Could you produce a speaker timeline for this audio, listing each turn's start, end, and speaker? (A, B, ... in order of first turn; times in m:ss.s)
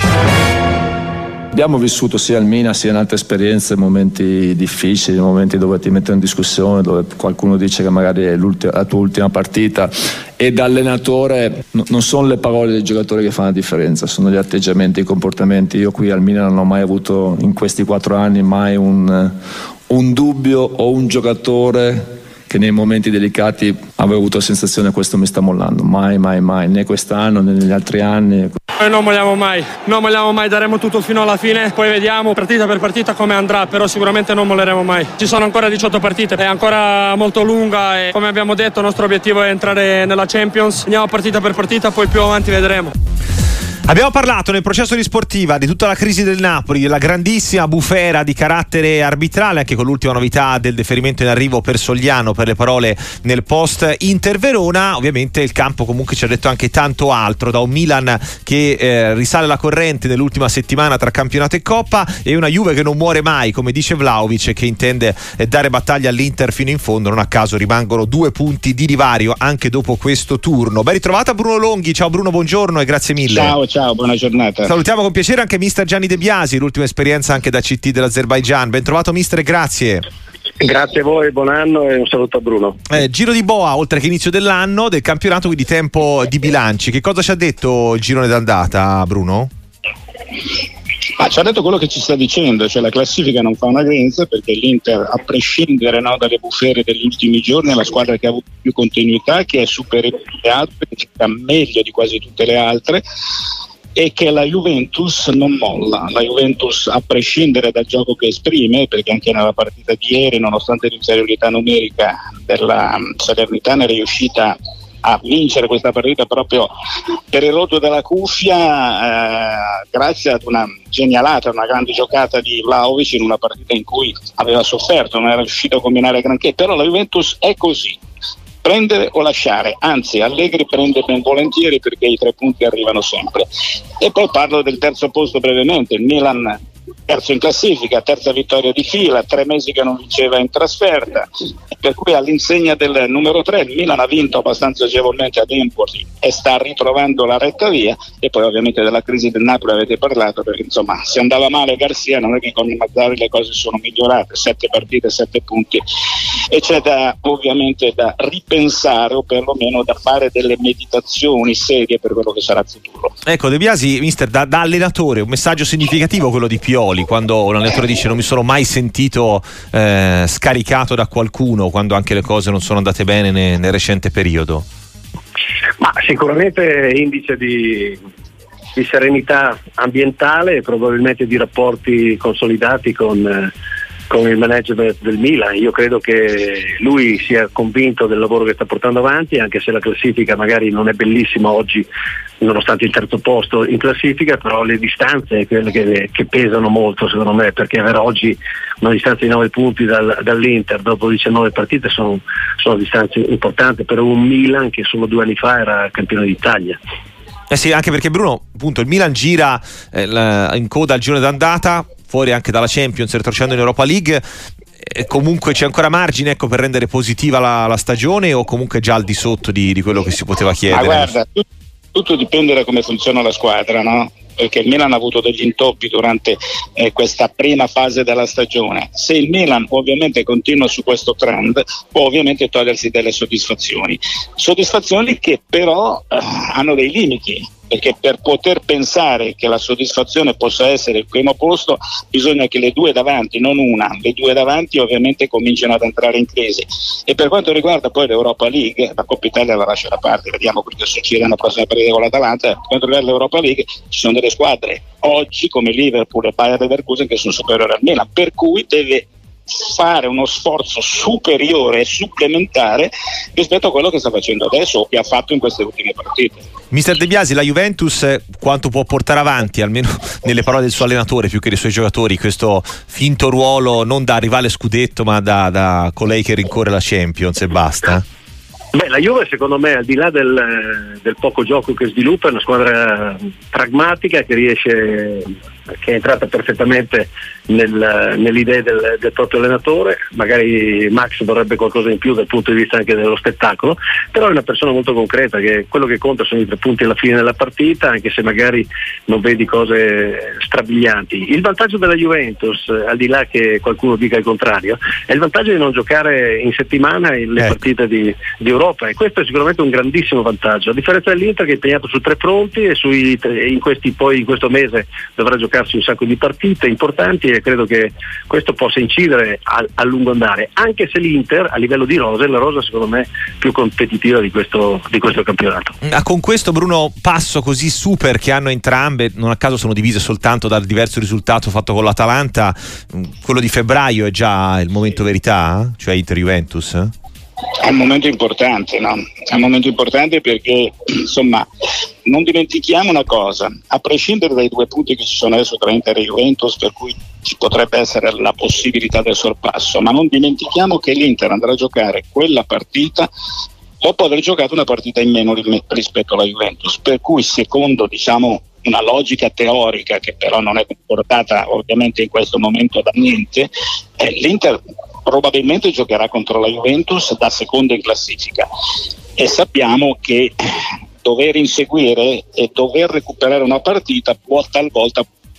0:01.5-0:19.4 A
0:19.9-0:28.6 A
0:28.8-0:42.9 B
0:43.9-1:13.5 C
1:13.2-1:14.8 D
1:14.6-1:20.0 C
1:20.6-1:22.8 E
1:22.9-1:29.5 C
1:31.2-1:43.0 D
1:44.0-1:56.7 D
1:57.3-2:08.0 D
2:08.6-2:13.4 D
2:14.0-2:35.8 D
2:36.5-2:43.1 D
2:43.2-2:54.6 C
2:55.8-2:58.0 E
2:58.7-3:03.5 E
3:04.1-3:11.8 E
3:12.4-3:26.8 E
3:27.5-3:34.2 C
3:34.8-3:41.1 C
3:40.7-4:26.4 D
4:26.7-4:38.0 C
4:38.7-5:25.7 E
5:25.8-5:36.9 C
5:37.6-5:41.4 D
5:42.0-5:53.1 D
5:53.8-6:08.5 D
6:09.2-6:10.3 D
6:11.0-6:15.0 D